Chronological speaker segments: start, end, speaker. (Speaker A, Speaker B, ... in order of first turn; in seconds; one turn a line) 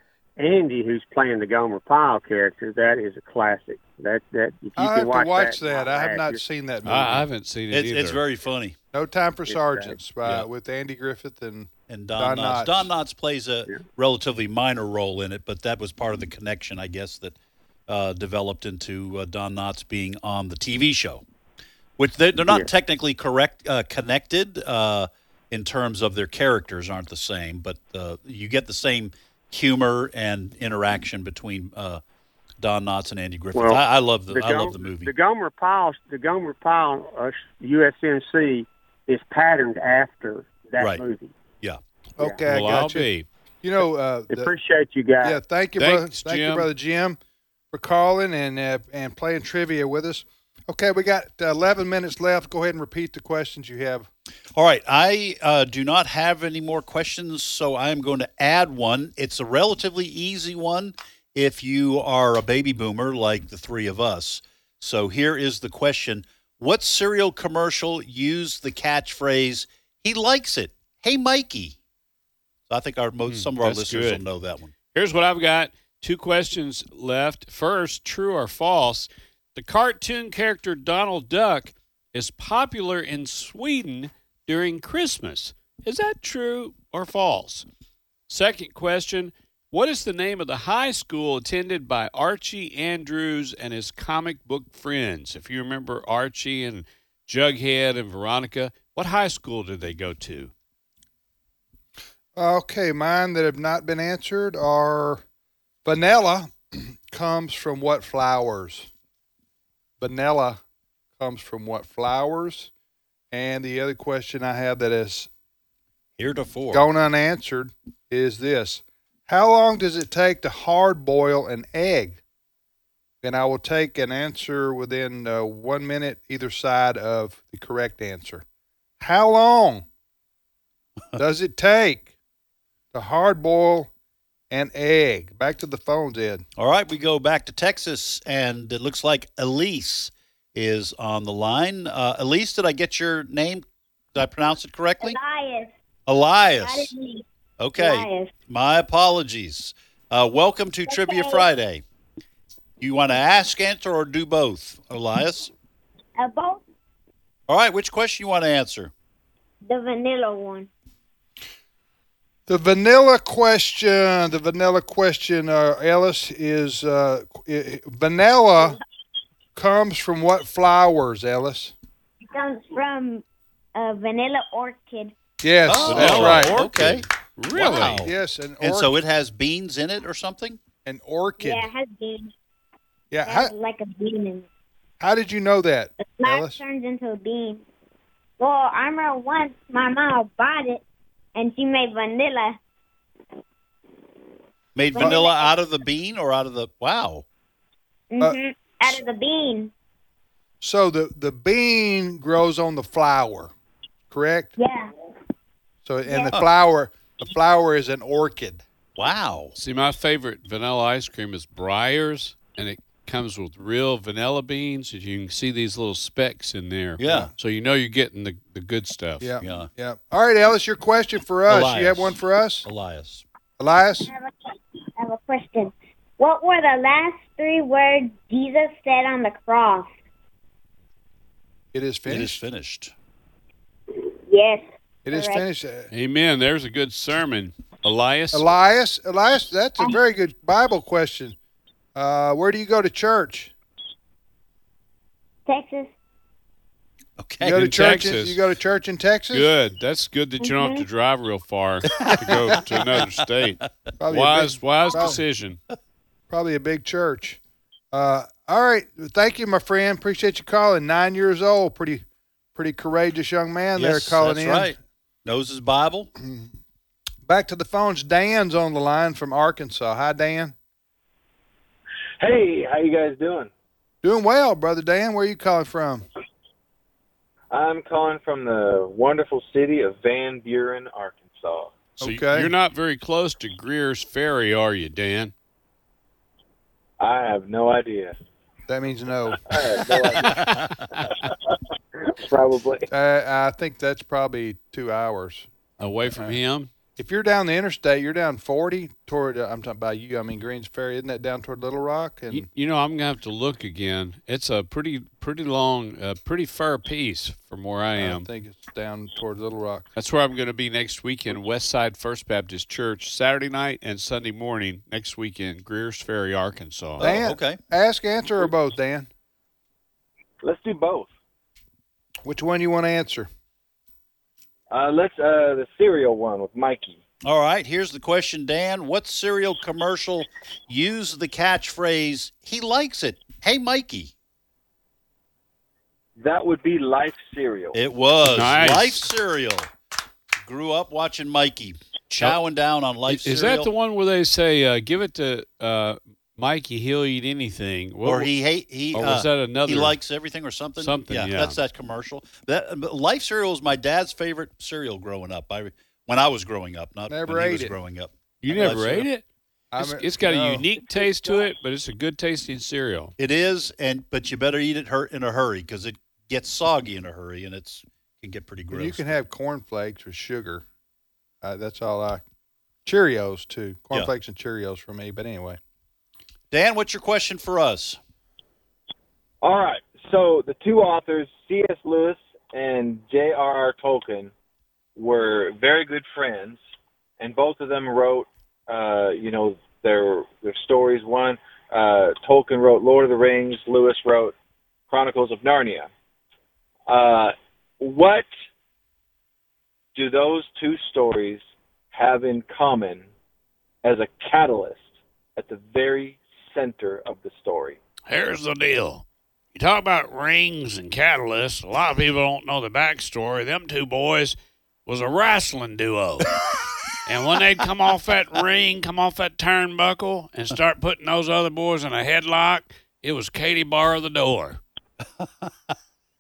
Speaker A: 0.4-6.4
Speaker B: 4.8-7.3
Speaker C: 6.8-8.2
Speaker D: 7.7-8.8
Speaker B: 8.9-12.9
Speaker A: 9.5-10.0
Speaker D: 11.9-17.4
Speaker D: 17.9-21.2
Speaker D: 22.0-32.0
Speaker D: 32.6-35.1
Speaker A: 33.5-41.4
Speaker B: 42.2-43.1
Speaker A: 42.2-42.5
Speaker C: 42.5-43.3
Speaker B: 43.6-44.5
Speaker A: 44.3-45.4
Speaker B: 45.2-47.2
Speaker C: 45.8-46.7
Speaker B: 47.7-54.1
Speaker D: 54.6-71.8
Speaker D: 72.7-74.7
Speaker C: 73.3-74.2
Speaker C: 74.9-87.7
Speaker C: 88.3-100.5
Speaker B: 102.4-105.2
Speaker B: 105.8-108.9
Speaker B: 110.0-110.6
Speaker B: 111.2-112.7
Speaker B: 113.3-115.3
Speaker D: 116.2-116.8
Speaker B: 116.7-122.2
Speaker B: 123.2-128.4
Speaker B: 129.0-129.9
Speaker B: 131.2-132.1
Speaker B: 132.9-133.9
Speaker B: 134.5-136.4
Speaker D: 136.6-145.2
Speaker E: 145.0-145.7
Speaker D: 146.1-146.9
Speaker E: 146.6-147.2
Speaker D: 147.6-151.8
Speaker E: 147.8-148.3
Speaker E: 150.9-151.5
Speaker D: 152.8-155.5
Speaker E: 156.2-156.6
Speaker D: 157.5-158.9
Speaker E: 159.7-160.7
Speaker B: 162.5-168.8
Speaker B: 169.6-171.8
Speaker E: 172.3-173.2
Speaker E: 173.8-175.1
Speaker B: 175.4-176.6
Speaker D: 175.7-180.6
Speaker C: 175.9-178.1
Speaker B: 178.0-179.0
Speaker B: 180.8-181.7
Speaker E: 181.4-182.3
Speaker B: 183.1-183.5
Speaker E: 183.2-184.5
Speaker B: 185.0-186.6
Speaker E: 186.0-187.6
Speaker E: 188.4-190.8
Speaker E: 191.3-192.6
Speaker D: 194.8-197.2
Speaker E: 194.9-195.5
Speaker E: 198.1-199.7
Speaker B: 200.6-203.5
Speaker B: 204.1-204.5
Speaker E: 204.6-204.9
Speaker B: 205.8-208.6
Speaker E: 206.1-206.4
Speaker D: 209.0-209.6
Speaker C: 209.6-219.3
Speaker D: 217.0-217.3
Speaker B: 217.0-217.3
Speaker B: 219.2-222.7
Speaker D: 219.4-219.7
Speaker D: 221.5-223.2
Speaker B: 223.6-224.1
Speaker E: 224.1-224.3
Speaker E: 225.0-229.9
Speaker B: 231.7-232.4
Speaker D: 232.1-232.9
Speaker E: 234.3-235.4
Speaker B: 235.1-235.9
Speaker C: 235.9-238.5
Speaker B: 238.3-241.4
Speaker B: 241.9-243.5
Speaker E: 245.5-245.9
Speaker D: 247.2-247.6
Speaker B: 247.4-249.5
Speaker C: 247.5-248.4
Speaker C: 249.3-255.6
Speaker E: 250.4-250.8
Speaker D: 251.9-253.1
Speaker B: 254.0-255.2
Speaker B: 256.3-257.4
Speaker B: 257.9-262.0
Speaker B: 262.6-264.8
Speaker D: 263.8-266.1
Speaker B: 266.2-266.5
Speaker B: 267.3-270.6
Speaker F: 272.2-273.5
Speaker B: 274.0-276.0
Speaker F: 277.5-281.8
Speaker C: 282.0-285.3
Speaker B: 282.0-282.5
Speaker F: 287.0-288.2
Speaker B: 288.7-290.3
Speaker F: 289.5-290.4
Speaker D: 290.2-290.9
Speaker F: 291.4-292.9
Speaker B: 292.9-296.4
Speaker C: 295.8-296.7
Speaker B: 297.0-302.5
Speaker C: 302.3-308.3
Speaker B: 308.0-309.9
Speaker C: 310.0-317.0
Speaker D: 317.0-317.6
Speaker B: 317.0-319.1
Speaker F: 320.4-321.1
Speaker B: 322.2-323.3
Speaker F: 324.7-327.0
Speaker D: 327.2-334.1
Speaker F: 336.2-337.8
Speaker D: 337.8-339.7
Speaker C: 338.2-339.1
Speaker D: 340.4-343.7
Speaker C: 343.1-348.3
Speaker D: 348.0-359.1
Speaker C: 348.9-350.0
Speaker C: 350.8-351.6
Speaker B: 357.1-357.8
Speaker C: 358.4-359.2
Speaker B: 359.7-360.7
Speaker C: 359.8-363.1
Speaker D: 363.2-369.2
Speaker B: 368.7-370.6
Speaker B: 371.4-372.2
Speaker B: 372.9-375.6
Speaker D: 376.5-378.0
Speaker F: 379.4-384.3
Speaker F: 385.0-386.6
Speaker F: 387.2-394.4
Speaker F: 394.9-395.9
Speaker F: 396.9-398.3
Speaker F: 399.9-401.4
Speaker F: 401.9-403.1
Speaker F: 403.8-407.8
Speaker C: 408.1-416.3
Speaker C: 417.1-424.6
Speaker D: 425.0-425.7